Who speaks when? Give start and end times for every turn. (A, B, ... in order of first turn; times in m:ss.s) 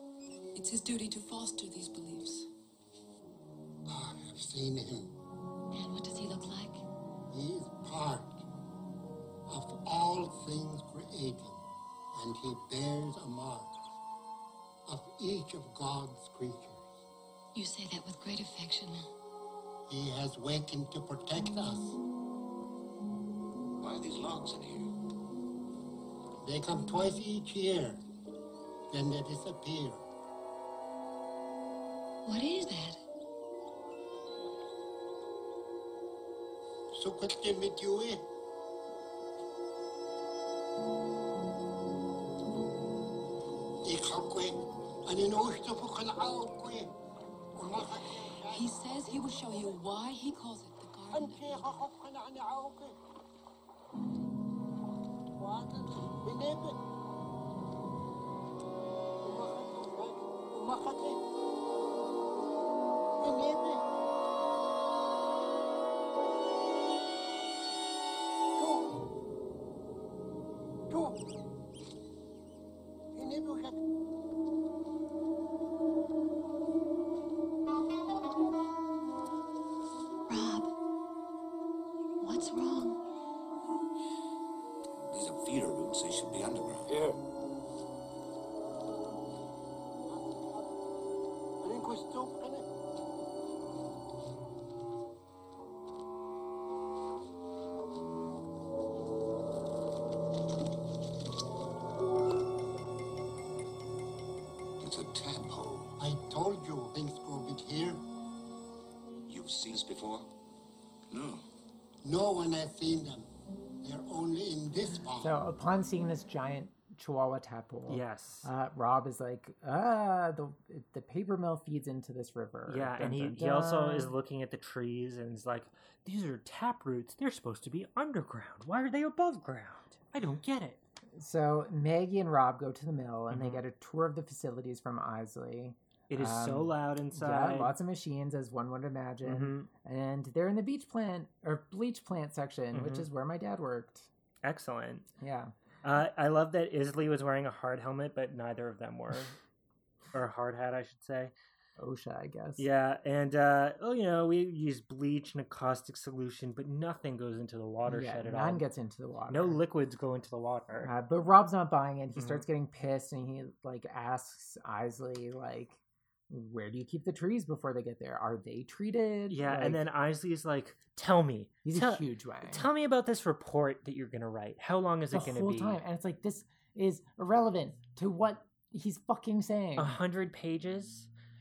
0:00.6-0:02.5 A
0:03.9-0:05.2 B
0:05.7-0:06.8 C
0:07.3-0:08.4 B
0:09.5-0:11.6 B
0:12.2-0:13.8 B
0:14.9-0:17.0 B
0:17.5-0:19.1 C
0:19.9-0:22.0 B
0:23.8-0:24.9 D
0:26.4-0:28.0 B
0:28.9-0:30.0 B
0:32.2-0:33.0 C
0:36.9-0:38.2 B
0:43.8-0:44.6 B
0:45.1-0:46.9 B
0:47.6-0:49.7 B
0:48.4-0:51.7 A
0:51.1-0:53.0 B
0:55.4-0:56.8 B
0:59.2-1:01.2 B
1:03.2-1:03.8 B
1:08.6-1:08.9 B
1:10.9-1:11.2 B
1:13.2-1:13.8 B
1:20.3-1:20.7 C
1:22.2-1:23.0 C
1:25.1-1:27.0 D
1:26.9-1:27.2 B
1:30.1-1:30.7 B
1:31.6-1:32.6 B
1:44.8-1:46.0 D
1:46.0-1:48.0 B
1:49.3-1:50.3 D
1:51.1-1:51.4 D
1:52.0-1:53.3 B
1:53.8-1:55.3 B
1:55.2-2:04.1 E
1:57.9-1:58.5 F
2:02.7-2:10.8 F
2:11.1-2:24.1 E
2:13.3-2:13.6 F
2:16.1-2:17.8 F
2:19.2-2:19.7 F
2:22.7-2:23.1 F
2:24.4-2:25.1 F
2:25.2-2:25.5 E
2:25.8-2:29.4 F
2:30.1-2:31.3 F
2:31.8-2:32.7 E
2:32.6-2:38.6 F
2:37.9-2:39.6 E
2:39.3-2:40.9 F
2:40.8-2:49.8 E
2:42.2-2:42.4 F
2:49.3-2:55.8 F
2:51.6-2:52.7 E
2:55.1-3:00.0 E
2:59.8-3:01.1 F